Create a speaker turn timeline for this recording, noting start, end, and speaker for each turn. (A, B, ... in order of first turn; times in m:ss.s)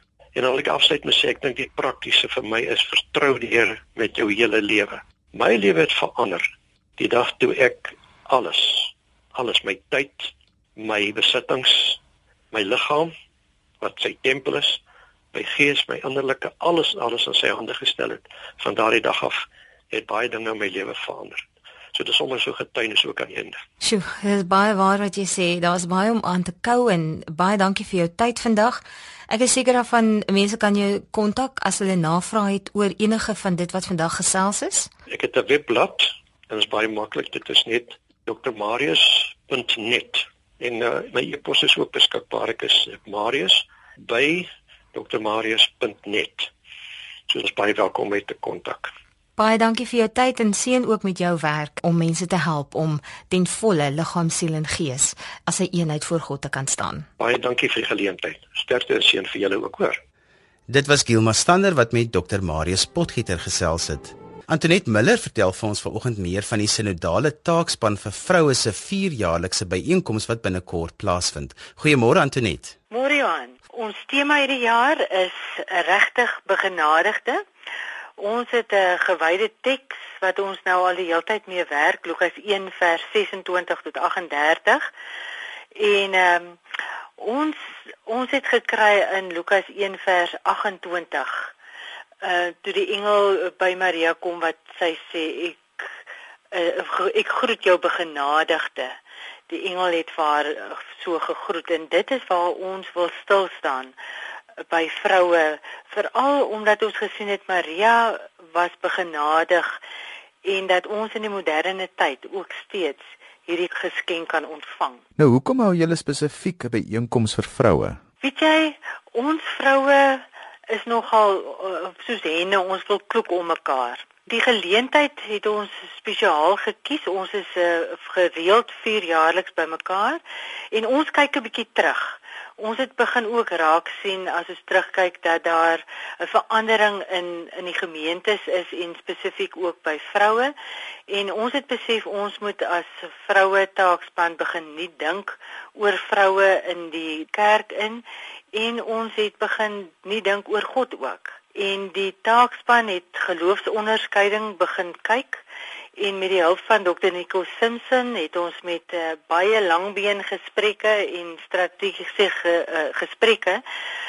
0:00.4-0:06.4 A
0:07.0-0:12.0 A
0:12.5-0:13.1 A
0:13.8-0:14.8 A
0:15.3-0:23.6 A
0:23.8-0:34.9 B
0:35.1-0:46.5 A
0:47.3-0:48.9 A
0:49.4-0:57.1 B
0:57.2-1:00.0 A
1:00.7-1:12.8 C
1:12.9-1:17.4 D
1:18.2-1:24.9 D
1:25.8-1:26.6 D
1:27.2-1:31.5 D
1:32.2-1:35.9 D
1:36.5-1:39.0 D
1:39.5-1:44.0 D
1:44.7-1:49.8 D
1:50.4-1:55.0 D
1:55.2-1:58.0 E
1:58.2-2:10.2 D
2:10.7-2:20.5 D
2:21.1-2:35.4 D
2:36.0-2:43.6 D